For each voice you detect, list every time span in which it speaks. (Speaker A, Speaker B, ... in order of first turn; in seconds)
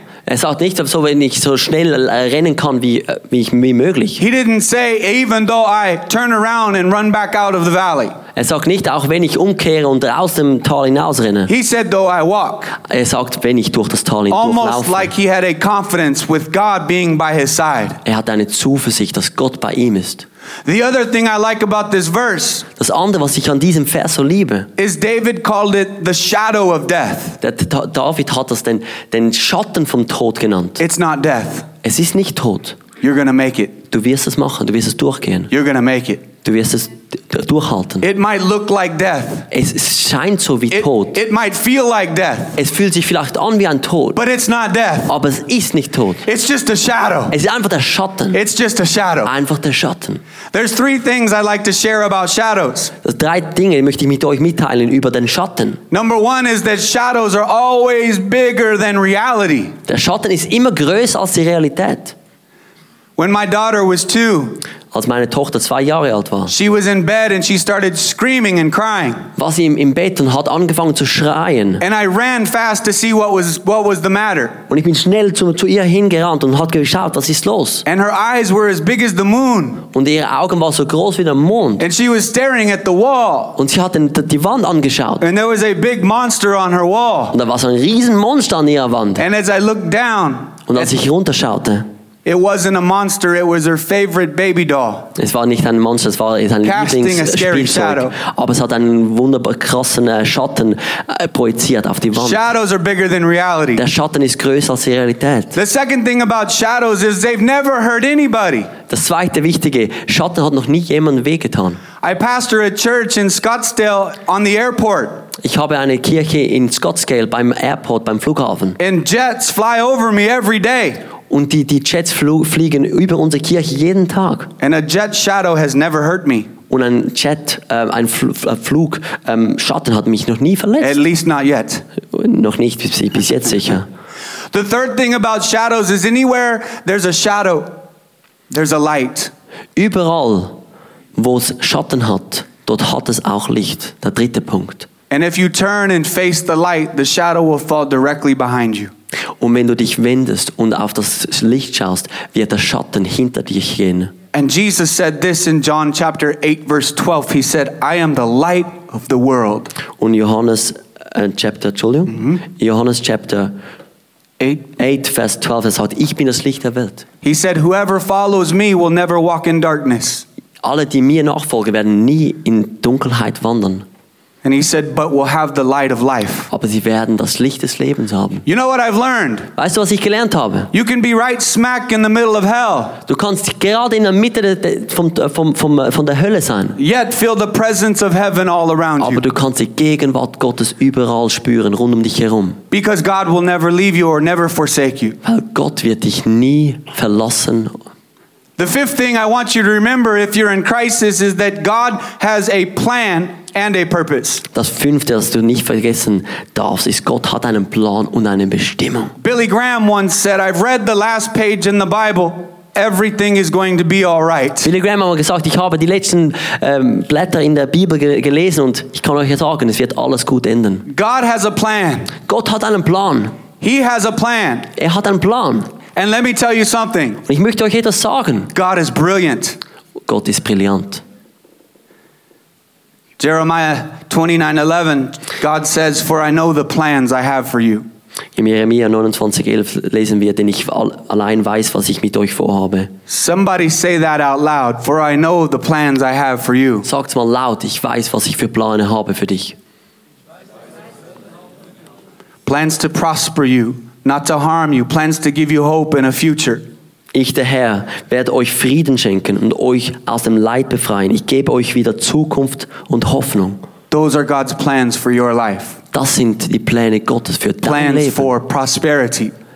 Speaker A: 0.3-4.2, 8.3-11.5, 12.8-15.1, 18.0-20.3, 22.8-24.7, 27.4-30.8, 31.8-32.8, 33.9-35.5, 36.4-38.0, 39.5-41.2, 42.6-44.2, 45.1-46.2, 47.3-48.4, 49.2-50.2, 53.0-55.8, 59.9-62.1, 64.9-66.5, 69.4-71.8, 74.7-77.8, 79.9-81.8, 83.6-85.2, 87.3-89.2, 90.7-91.9, 95.2-102.4, 103.8-105.6, 108.9-111.8, 115.4-118.8, 121.3-124.5, 126.7-131.0, 132.1-133.9, 139.8-140.6, 141.2-144.9, 149.4-154.1, 160.0-163.6, 164.8-167.1, 170.6-173.8, 176.5-178.4, 179.6-180.7, 183.1-186.8, 189.0-192.6, 195.2-197.8, 204.5-209.2, 214.6-220.9, 222.2-223.4, 224.8-225.7, 227.3-228.5, 230.1-231.0, 238.4-242.9, 246.8-249.6, 257.1-263.6, 265.9-268.3
Speaker B: 4.2-8.2, 11.5-12.8, 14.3-18.0, 20.6-22.7, 24.8-27.4, 30.8-31.7, 33.0-33.8, 35.5-36.3, 38.0-39.5, 40.7-42.6, 44.1-45.1, 46.2-47.4, 48.3-49.3, 50.5-52.9, 55.9-59.8, 63.2-64.6, 66.5-69.3, 71.8-74.6, 77.9-79.9, 81.8-83.6, 85.2-87.4, 89.2-90.9, 92.2-95.1, 96.6-98.2, 102.2-103.8, 105.5-108.7, 112.0-115.3, 118.8-121.0, 124.6-126.5, 130.8-131.8, 134.5-137.8, 138.5-139.3, 145.1-148.9, 154.3-159.7, 162.1-162.4, 164.4-164.8, 167.2-170.2, 174.4-176.5, 178.5-179.5, 180.7-183.0, 186.8-189.2, 192.7-195.2, 198.6-204.4, 209.2-214.7, 220.9-222.1, 223.6-224.7, 225.9-227.2, 228.5-229.6, 233.2-237.9, 243.1-246.9, 252.5-256.6, 263.9-265.8, 267.6-269.3